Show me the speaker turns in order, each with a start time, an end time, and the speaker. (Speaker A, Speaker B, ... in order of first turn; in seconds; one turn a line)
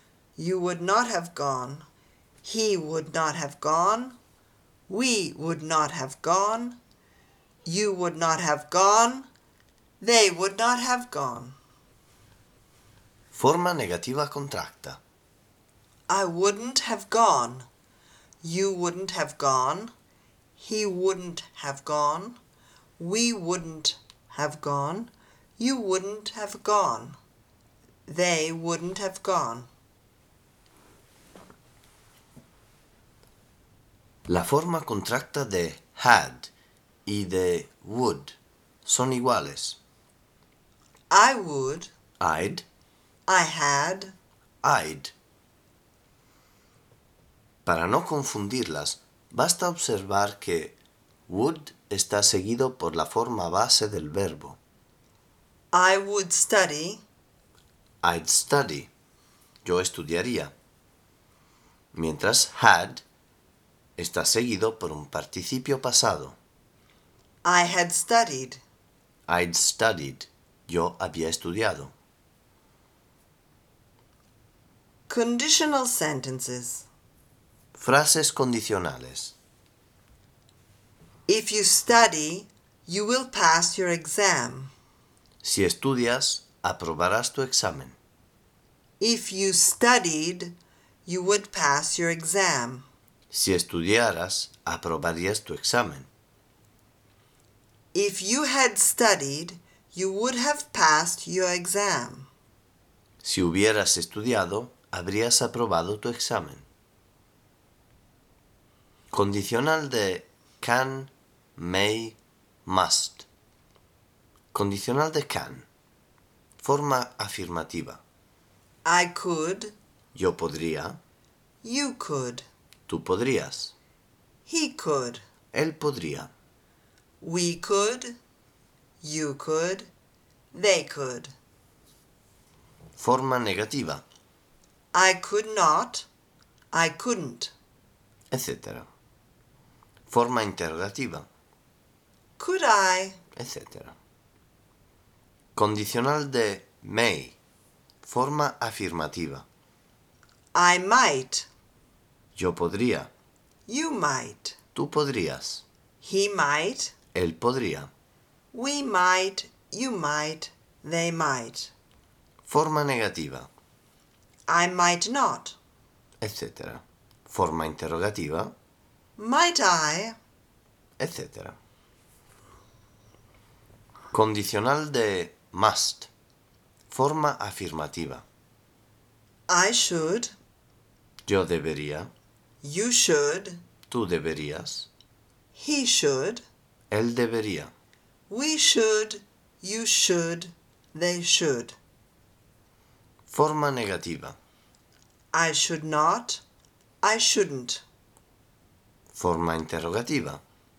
Speaker A: 0.4-1.9
Speaker A: 2.4-4.2
Speaker A: 4.9-6.8
Speaker A: 7.7-9.3
Speaker A: 10.0-11.6
Speaker B: 13.3-15.0
Speaker A: 16.1-17.7
Speaker A: 18.4-19.9
Speaker A: 20.6-22.4
Speaker A: 23.0-27.2
Speaker A: 28.1-29.7
Speaker B: 34.3-36.5
Speaker B: 37.1-39.8
Speaker A: 41.1-41.9
Speaker B: 42.2-42.6
Speaker A: 43.3-44.1
Speaker B: 44.6-45.1
Speaker B: 47.6-50.8
Speaker B: 51.3-54.6
Speaker A: 55.7-57.0
Speaker B: 58.0-58.9
Speaker B: 59.6-60.5
Speaker B: 61.9-63.0
Speaker B: 64.0-66.4
Speaker A: 67.4-68.6
Speaker B: 69.3-71.9
Speaker A: 75.1-76.9
Speaker B: 77.8-79.3
Speaker A: 81.3-84.7
Speaker B: 85.4-88.0
Speaker A: 89.0-92.8
Speaker B: 93.3-96.1
Speaker A: 97.9-102.3
Speaker B: 103.2-106.7
Speaker B: 109.1-113.2
Speaker B: 114.5-115.7
Speaker B: 116.6-118.0
Speaker A: 118.8-119.8
Speaker B: 120.2-121.0
Speaker A: 121.6-122.4
Speaker B: 122.9-123.7
Speaker A: 124.5-125.2
Speaker B: 125.5-126.3
Speaker A: 127.2-128.2
Speaker A: 129.0-129.9
Speaker A: 130.5-131.3
Speaker B: 133.0-134.0
Speaker A: 134.9-136.1
Speaker A: 136.7-137.5
Speaker B: 138.3-138.9
Speaker B: 140.1-141.3
Speaker A: 142.4-143.2
Speaker B: 143.4-143.9
Speaker B: 145.6-147.4
Speaker B: 148.0-149.4
Speaker A: 150.5-151.5
Speaker B: 152.4-153.1
Speaker A: 153.7-154.6
Speaker B: 154.8-155.6
Speaker A: 156.0-156.9
Speaker B: 157.1-157.9
Speaker A: 158.5-161.7
Speaker B: 162.4-163.5
Speaker A: 164.5-165.6
Speaker B: 166.2-168.5
Speaker A: 169.2-170.2
Speaker B: 171.0-171.6
Speaker B: 174.1-176.1
Speaker B: 176.9-178.2
Speaker A: 179.5-180.3
Speaker B: 181.3-182.1
Speaker A: 182.6-183.6
Speaker B: 183.9-184.9
Speaker A: 185.6-186.4
Speaker B: 186.9-187.7
Speaker A: 188.3-191.8
Speaker B: 193.3-194.4
Speaker A: 195.3-196.4
Speaker A: 197.0-197.8
Speaker B: 199.1-200.4